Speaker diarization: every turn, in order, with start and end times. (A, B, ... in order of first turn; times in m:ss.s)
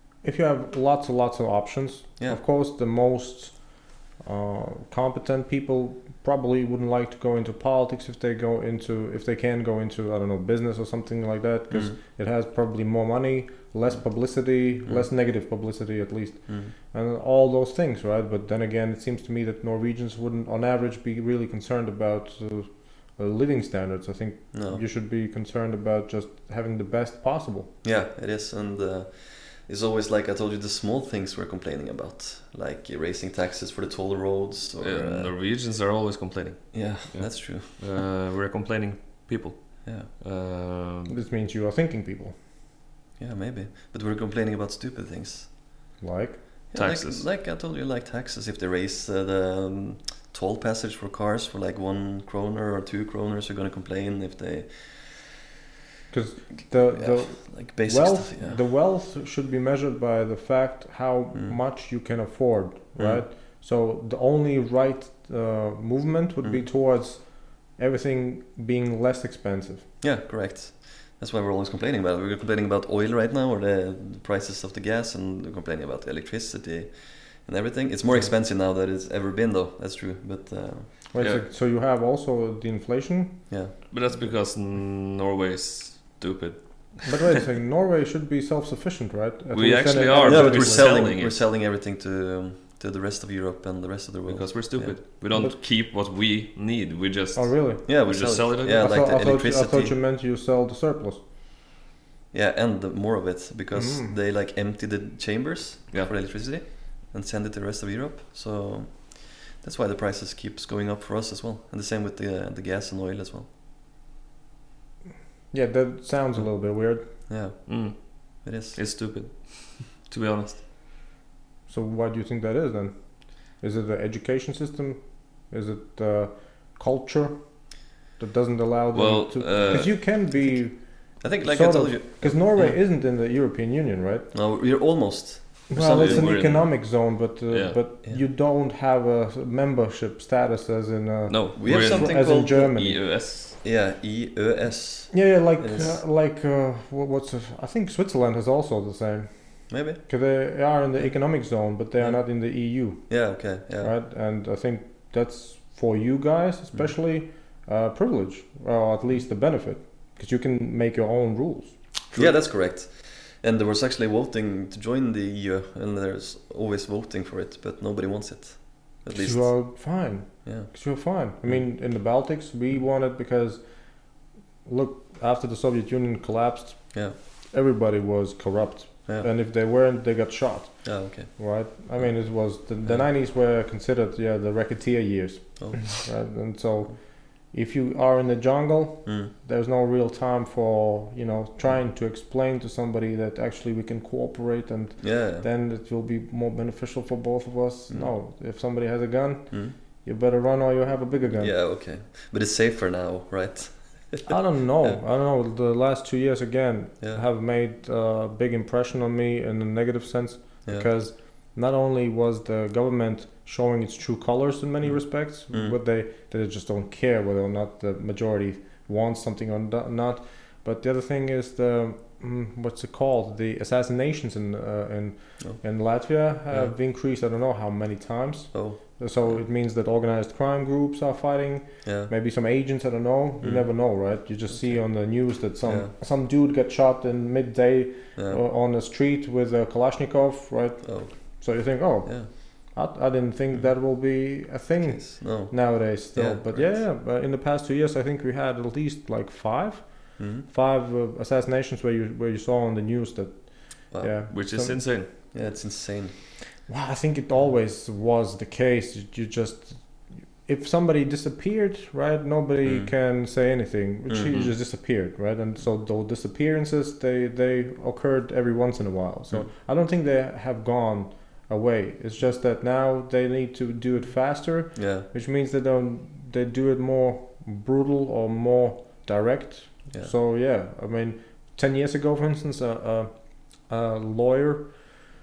0:00.2-0:27.8 A
0:11.7-0:12.0 B
0:16.5-0:16.7 B
0:24.5-0:24.8 B
0:27.8-0:35.3 B
0:34.8-0:41.1 C
0:36.7-0:37.8 B
0:41.1-0:42.3 A
0:43.2-0:45.5 B
0:46.0-0:46.4 A
0:46.7-0:55.4 B
0:46.7-0:47.2 C
0:56.1-1:09.9 A
0:56.9-0:58.6 B
1:03.0-1:03.2 B
1:10.0-1:21.1 B
1:21.1-1:23.5 A
1:23.5-1:23.7 B
1:23.9-1:27.4 C
1:27.0-1:31.0 A
1:29.5-1:31.4 C
1:30.2-1:35.0 B
1:34.3-1:38.9 C
1:37.3-1:41.2 A
1:37.8-1:39.9 B
1:42.3-1:53.5 B
1:43.7-1:44.1 A
1:55.5-1:57.1 A
1:57.3-1:57.8 B
1:57.7-2:00.6 C
1:58.4-1:58.8 B
2:01.7-2:02.9 A
2:03.5-2:07.4 A
2:08.2-2:14.3 A
2:08.9-2:10.0 C
2:11.2-2:12.7 B
2:14.3-2:16.4 B
2:15.7-2:23.0 A
2:15.8-2:16.8 C
2:17.5-2:17.8 C
2:21.3-2:23.6 C
2:21.6-2:22.7 B
2:23.6-2:26.0 B
2:25.1-2:29.3 A
2:29.7-2:30.0 B
2:30.0-2:41.8 A
2:33.1-2:33.9 B
2:42.1-2:49.6 B
2:49.1-2:53.6 A
2:50.4-2:50.7 B
2:54.6-2:56.9 A
2:57.5-3:07.0 A
3:00.8-3:01.3 B
3:05.6-3:05.9 B
3:07.5-3:21.5 A
3:09.0-3:09.3 B
3:15.0-3:15.4 B
3:21.4-3:25.0 B
3:24.2-4:14.8 A
3:34.8-3:35.8 B
3:48.5-3:49.3 B
3:51.8-3:52.1 B
3:53.4-3:53.7 B
3:54.5-3:54.8 B
3:55.6-3:55.9 B
4:00.8-4:01.1 B
4:04.8-4:06.8 B
4:10.2-4:10.4 B
4:14.3-4:15.1 C
4:15.3-4:16.1 B
4:16.7-4:19.8 A
4:20.4-4:43.1 A
4:22.6-4:22.9 B
4:24.1-4:24.5 B
4:34.7-4:35.0 B
4:43.6-4:44.7 A